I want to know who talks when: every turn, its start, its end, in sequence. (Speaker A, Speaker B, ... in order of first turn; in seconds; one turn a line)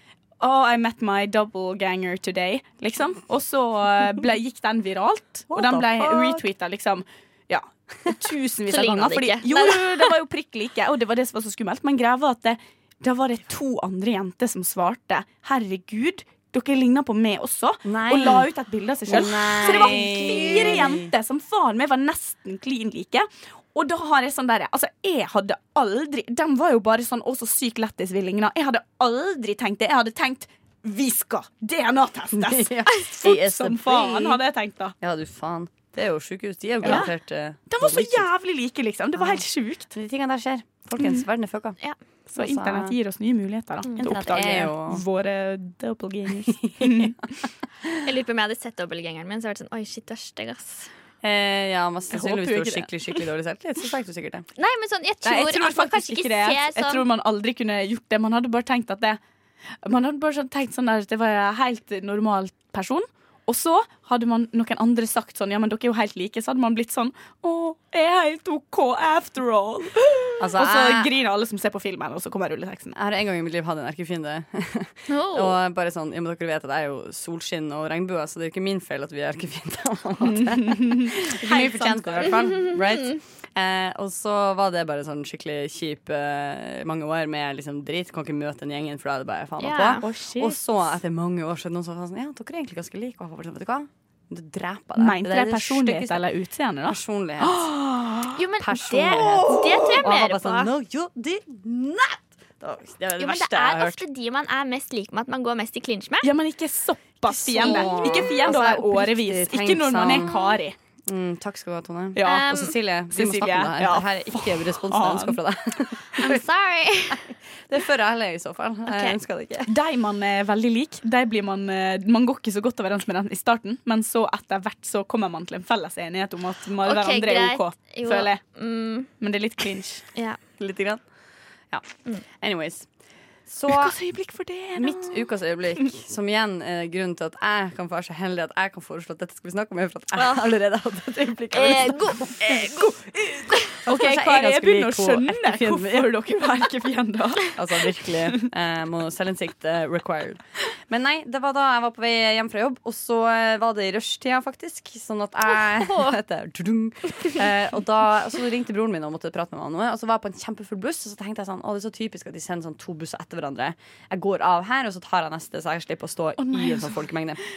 Speaker A: 0.4-34.9
Speaker B: 5.5-6.4
Speaker C: 8.7-10.1
Speaker B: 17.8-18.5
Speaker B: 19.1-21.1
Speaker C: 19.6-20.8
Speaker B: 32.3-34.4
Speaker B: 35.0-38.3
Speaker A: 36.8-37.1
Speaker C: 36.8-37.1
Speaker A: 37.7-39.9
Speaker B: 39.1-41.8
Speaker A: 42.3-47.3
Speaker B: 42.3-43.0
Speaker B: 44.0-45.0
Speaker B: 46.5-47.1
Speaker C: 48.0-50.9
Speaker B: 51.2-54.5
Speaker A: 52.1-53.2
Speaker C: 54.6-57.0
Speaker A: 55.2-59.2
Speaker A: 59.8-73.0
Speaker B: 70.4-71.1
Speaker B: 72.9-96.2
Speaker C: 75.1-75.6
Speaker A: 80.2-82.3
Speaker C: 82.3-83.1
Speaker C: 89.6-90.0
Speaker A: 90.0-90.6
Speaker A: 95.0-98.4
Speaker B: 96.8-97.7
Speaker C: 98.3-100.7
Speaker B: 98.6-104.0
Speaker A: 99.2-100.0
Speaker C: 103.2-106.3
Speaker A: 106.2-110.8
Speaker B: 107.3-110.3
Speaker C: 107.6-108.5
Speaker C: 110.0-110.6
Speaker B: 111.0-116.4
Speaker A: 112.1-115.4
Speaker C: 112.2-112.7
Speaker C: 116.2-117.3
Speaker B: 117.1-119.7
Speaker C: 118.9-119.2
Speaker A: 119.7-128.4
Speaker C: 126.8-129.1
Speaker A: 129.2-130.0
Speaker B: 130.6-131.0
Speaker B: 131.7-132.9
Speaker B: 133.4-134.0
Speaker A: 133.7-135.2
Speaker B: 134.7-142.7
Speaker C: 140.2-140.5
Speaker C: 141.5-142.9
Speaker A: 142.4-148.5
Speaker B: 143.8-146.2
Speaker B: 147.5-167.4
Speaker C: 155.6-156.2
Speaker A: 166.4-167.0